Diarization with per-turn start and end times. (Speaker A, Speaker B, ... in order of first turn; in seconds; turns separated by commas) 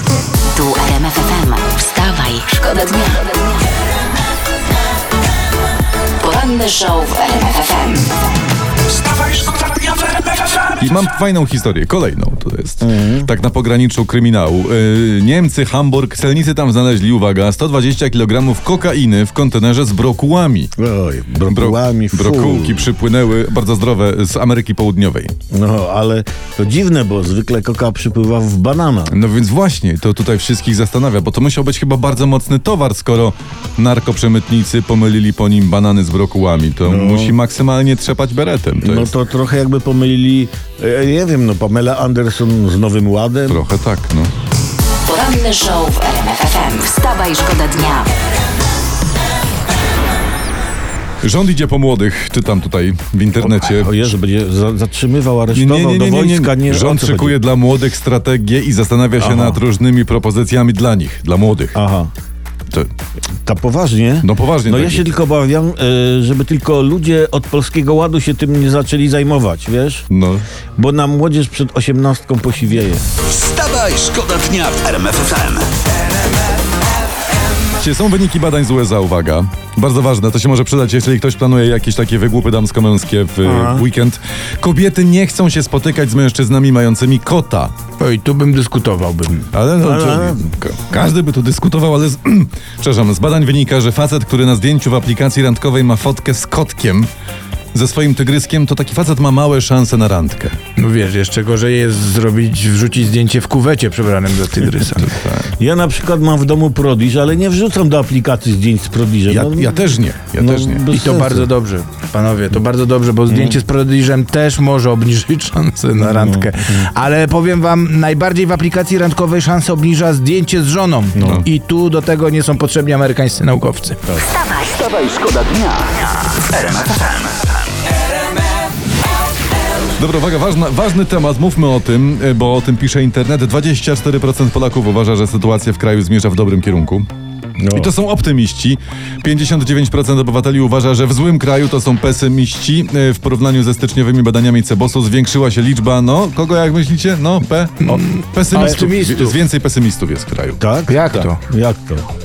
Speaker A: 0.5-3.3, Speaker A: 6.2-8.1, Speaker B: 9.0-9.9, Speaker C: 10.6-20.7, Speaker D: 12.8-13.3, Speaker D: 20.8-22.9, Speaker C: 21.5-25.3, Speaker D: 25.5-29.1, Speaker C: 29.1-39.1, Speaker D: 36.8-37.4, Speaker D: 38.8-43.6, Speaker C: 43.5-44.3, Speaker A: 45.0-48.1, Speaker C: 51.2-54.0, Speaker D: 53.4-57.4, Speaker C: 55.5-61.8, Speaker D: 59.2-59.6, Speaker D: 61.7-62.1, Speaker D: 63.4-70.0, Speaker C: 64.2-65.1, Speaker C: 70.1-70.5, Speaker D: 70.8-73.0, Speaker B: 73.2-75.7, Speaker C: 77.8-87.7, Speaker D: 83.4-83.8, Speaker E: 88.0-89.5, Speaker C: 89.5-97.1, Speaker D: 89.8-90.5, Speaker C: 97.7-100.6, Speaker E: 100.8-105.1, Speaker C: 104.8-105.5, Speaker D: 105.6-109.8, Speaker C: 109.3-110.8, Speaker D: 110.4-111.5, Speaker E: 110.9-124.0, Speaker D: 113.3-113.6, Speaker D: 116.0-116.9, Speaker D: 121.1-121.5, Speaker B: 124.2-127.6, Speaker C: 130.0-137.1, Speaker D: 137.6-137.9, Speaker C: 137.7-151.3, Speaker E: 147.8-149.4, Speaker D: 150.6-152.1, Speaker E: 150.9-151.4